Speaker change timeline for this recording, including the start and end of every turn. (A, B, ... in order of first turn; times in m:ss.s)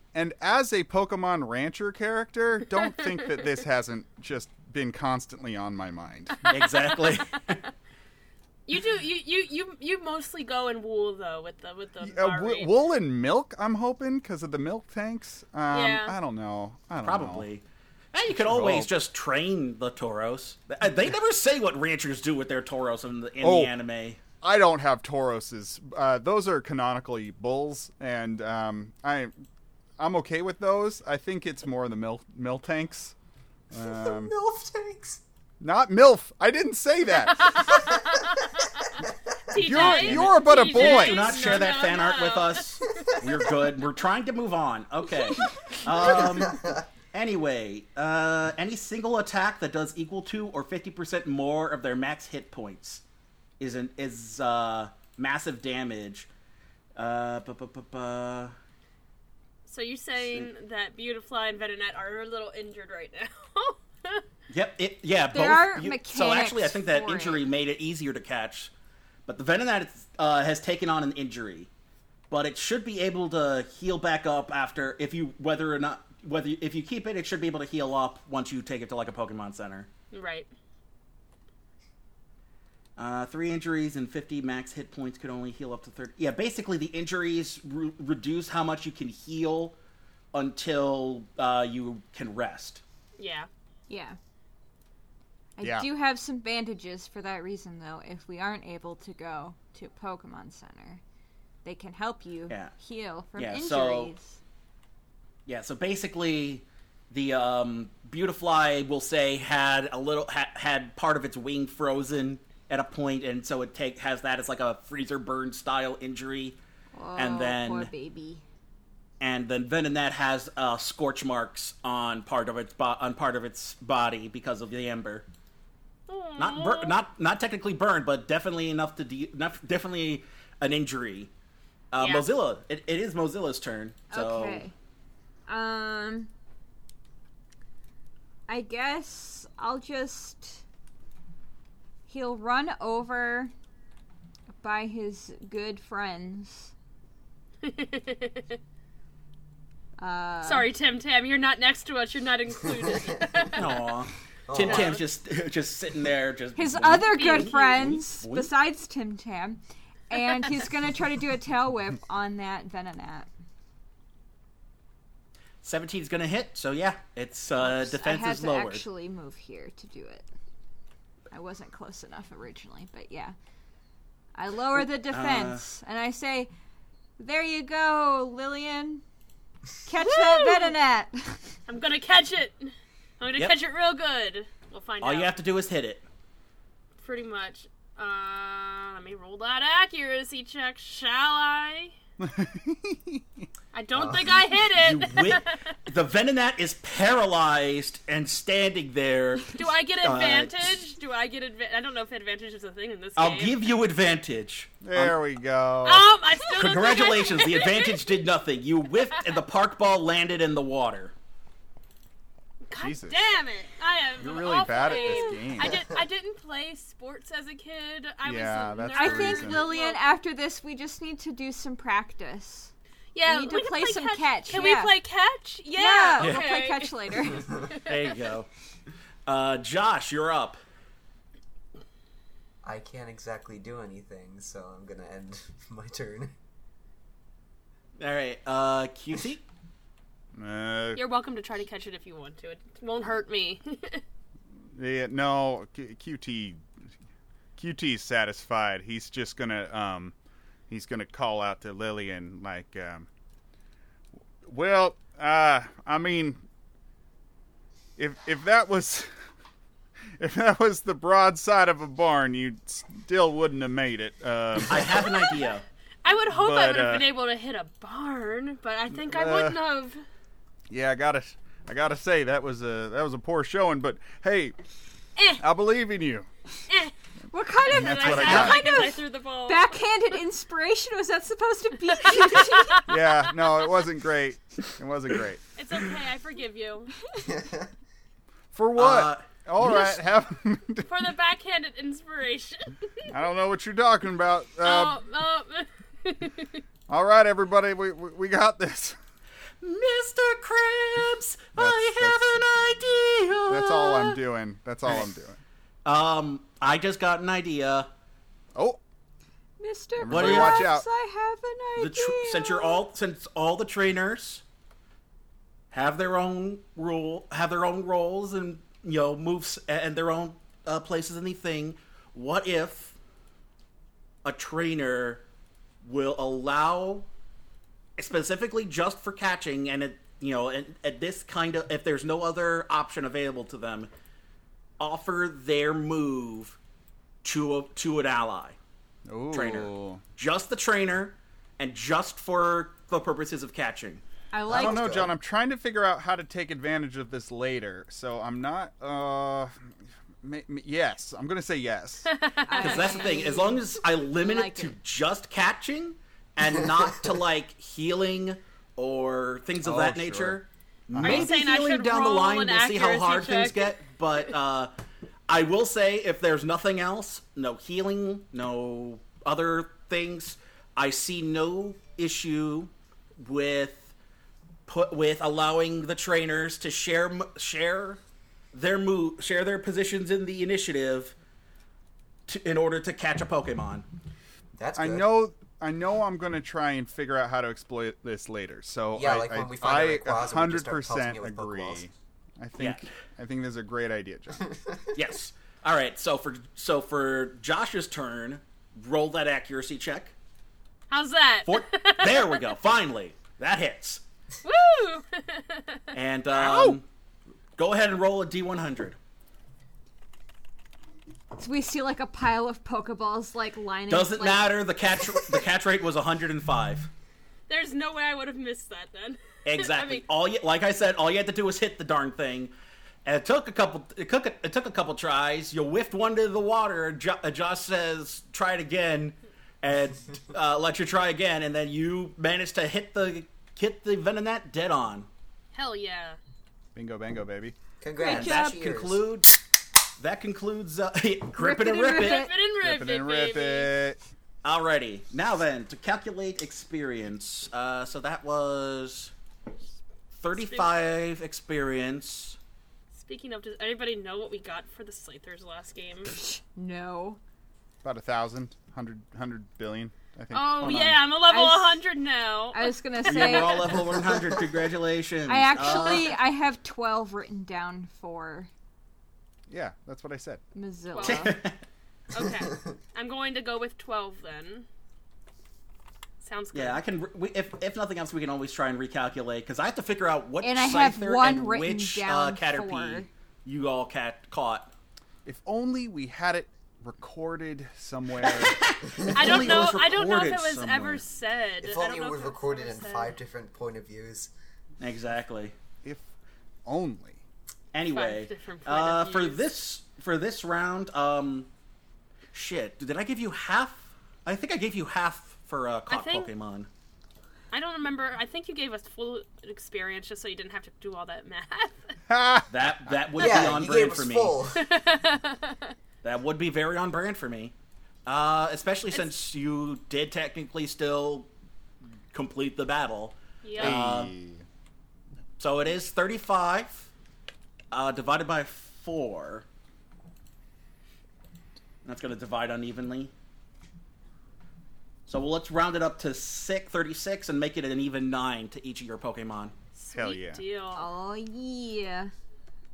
0:00.1-0:06.4 A
0:06.4-0:06.8 B
0:06.5-0:07.6 C
0:08.7-0:12.7 B
0:12.0-0:17.5 A
0:15.7-0:16.2 B
0:17.0-0:24.2 C
0:18.3-0:18.9 A
0:23.4-0:23.7 A
0:24.4-0:29.3 A
0:30.0-0:33.2 A
0:33.7-0:34.3 A
0:33.7-0:35.2 D
0:35.6-0:37.9 A
0:37.3-0:39.0 B
0:39.5-0:43.0 B
0:39.6-0:41.5 A
0:39.7-0:53.0 C
0:46.0-0:46.8 D
0:53.6-0:56.3 C
0:57.0-0:58.6 C
0:59.7-1:04.2 B
1:04.5-1:08.7 C
1:05.3-1:07.4 E
1:09.3-1:11.7 C
1:12.3-1:19.9 C
1:20.1-1:20.5 B
1:23.0-1:29.8 C
1:30.3-1:32.8 C
1:33.2-1:33.5 B
1:33.9-1:34.2 E
1:35.6-1:41.0 E
1:35.6-1:35.9 A
1:41.6-1:44.4 E
1:43.4-1:44.1 C
1:45.5-1:56.6 C
1:56.9-1:58.4 E
1:57.2-1:57.9 C
1:59.2-2:05.3 C
2:06.1-2:07.0 B
2:06.4-2:11.3 C
2:11.9-2:14.6 C
2:12.0-2:12.3 B
2:14.1-2:14.7 E
2:15.5-2:16.3 E
2:18.5-2:20.6 E
2:22.1-2:23.5 E
2:24.6-2:26.7 E
2:27.6-2:28.6 B
2:30.0-2:30.7 E
2:30.4-2:33.9 B
2:33.6-2:38.5 C
2:34.5-2:35.0 D
2:34.6-2:35.0 B
2:36.6-2:43.3 E
2:37.2-2:37.6 B
2:45.6-2:48.8 C
2:47.6-2:50.3 E
2:51.3-2:53.4 E
2:54.4-2:56.5 E
2:55.0-2:55.6 C
2:57.2-2:59.0 E
2:59.8-3:01.4 E
3:00.0-3:00.8 B
3:01.7-3:05.3 B
3:05.0-3:06.0 C
3:07.0-3:11.9 B
3:12.2-3:13.5 A
3:13.7-3:15.7 B
3:14.0-3:20.8 C
3:19.5-3:23.6 B
3:23.2-3:25.2 C
3:24.8-3:26.2 A
3:25.8-3:28.0 B
3:26.4-3:27.0 E
3:26.5-3:31.1 C
3:32.7-3:40.1 B
3:32.8-3:33.2 A
3:34.2-3:35.9 A
3:38.2-3:39.7 A
3:38.9-3:42.7 E
3:43.1-3:47.9 B
3:43.2-3:45.0 E
3:45.7-3:47.6 E
3:46.2-3:46.4 C
3:47.8-3:48.5 C
3:49.3-3:50.6 C
3:52.6-3:56.3 D
3:58.0-3:59.4 C
4:00.4-4:01.0 A
4:01.0-4:04.0 B
4:04.7-4:06.6 A
4:07.6-4:10.2 A
4:10.7-4:13.1 A
4:14.4-4:16.4 A
4:18.0-4:19.1 A
4:20.2-4:25.1 A
4:24.7-4:25.6 C
4:26.0-4:30.0 B
4:26.3-4:27.1 A
4:28.9-4:29.6 A
4:30.7-4:34.6 A
4:35.2-4:35.4 B
4:35.4-4:36.3 A
4:37.3-4:42.8 E
4:37.6-4:39.7 B
4:37.7-4:38.6 A
4:38.0-4:38.6 C
4:42.2-4:42.8 B
4:42.8-4:45.4 A
4:45.6-4:46.9 B
4:47.2-4:47.7 D
4:48.5-4:50.9 A
4:48.8-4:49.3 C
4:50.8-4:53.1 B
4:53.1-4:55.0 A
4:54.6-4:56.6 B
4:56.9-4:59.0 A
4:59.6-5:04.2 C
5:01.6-5:02.4 A
5:03.5-5:05.4 A
5:05.8-5:07.9 C
5:08.6-5:08.8 A
5:09.6-5:12.8 E
5:10.0-5:10.8 A
5:10.1-5:10.7 C
5:11.8-5:14.4 C
5:15.7-5:23.0 C
5:24.2-5:25.2 C
5:25.8-5:27.1 C
5:28.0-5:33.9 C
5:34.8-5:36.6 C
5:37.2-5:38.6 C
5:39.1-5:40.0 A
5:39.3-5:44.0 C
5:44.3-5:45.1 E
5:44.5-5:45.1 D
5:44.5-5:49.7 A
5:50.2-5:52.1 A
5:52.1-5:53.3 B
5:52.5-5:54.8 E
5:52.6-6:04.7 C
5:59.6-6:00.4 A
6:00.9-6:01.3 A
6:01.0-6:03.7 B
6:05.3-6:13.9 C
6:14.7-6:18.0 C
6:18.5-6:21.2 C
6:22.3-6:23.9 C
6:24.6-6:25.1 D
6:24.8-6:34.5 A
6:29.0-6:31.8 D
6:32.6-6:32.9 C
6:34.9-6:40.1 C
6:40.9-6:42.4 B
6:41.5-6:44.0 C
6:44.4-6:45.8 B
6:45.9-6:46.8 C
6:46.3-6:46.8 A
6:47.6-6:49.0 C
6:51.4-6:54.6 E
6:53.9-6:56.9 C
6:57.5-7:00.0 B
6:59.4-7:02.5 C
7:03.0-7:15.1 C
7:15.5-7:16.2 B
7:16.8-7:17.6 A
7:17.8-7:19.1 D
7:18.0-7:18.6 E
7:18.0-7:19.4 C
7:20.0-7:22.2 C
7:21.4-7:22.4 E
7:21.8-7:23.7 B
7:22.6-7:24.0 A
7:24.4-7:29.1 C
7:30.2-7:32.4 C
7:30.4-7:30.8 B
7:32.9-7:36.1 B
7:36.1-7:37.2 E
7:37.8-7:40.9 A
7:40.3-7:43.9 B
7:40.6-7:41.1 C
7:41.3-7:41.8 E
7:42.5-7:43.8 E
7:43.0-7:46.2 C
7:44.1-7:44.4 D
7:45.3-7:48.5 E
7:49.5-7:50.4 A
7:50.6-7:51.4 E
7:51.0-7:51.3 B
7:51.0-7:51.6 C
7:52.1-7:54.7 B
7:56.2-7:56.8 B
7:56.5-8:04.7 C
8:00.4-8:03.1 E
8:05.2-8:08.6 A
8:08.2-8:11.0 C
8:09.1-8:13.2 B
8:11.6-8:14.3 D
8:14.8-8:15.5 C
8:16.6-8:17.2 A
8:17.7-8:21.5 C
8:17.9-8:19.4 B
8:22.3-8:26.7 C
8:25.9-8:26.3 B
8:27.5-8:32.0 B
8:32.1-8:33.0 A
8:32.5-8:34.4 C
8:33.2-8:34.7 D
8:34.6-8:35.8 B
8:36.0-8:37.5 C
8:38.1-8:41.3 C
8:42.1-8:44.1 C
8:43.4-8:43.8 B
8:43.6-8:44.4 A
8:45.4-8:46.9 C
8:47.7-8:49.5 C
8:51.8-8:53.1 C
8:55.1-8:59.5 C
8:59.8-9:00.8 B
8:59.9-9:00.4 A
9:00.8-9:02.1 E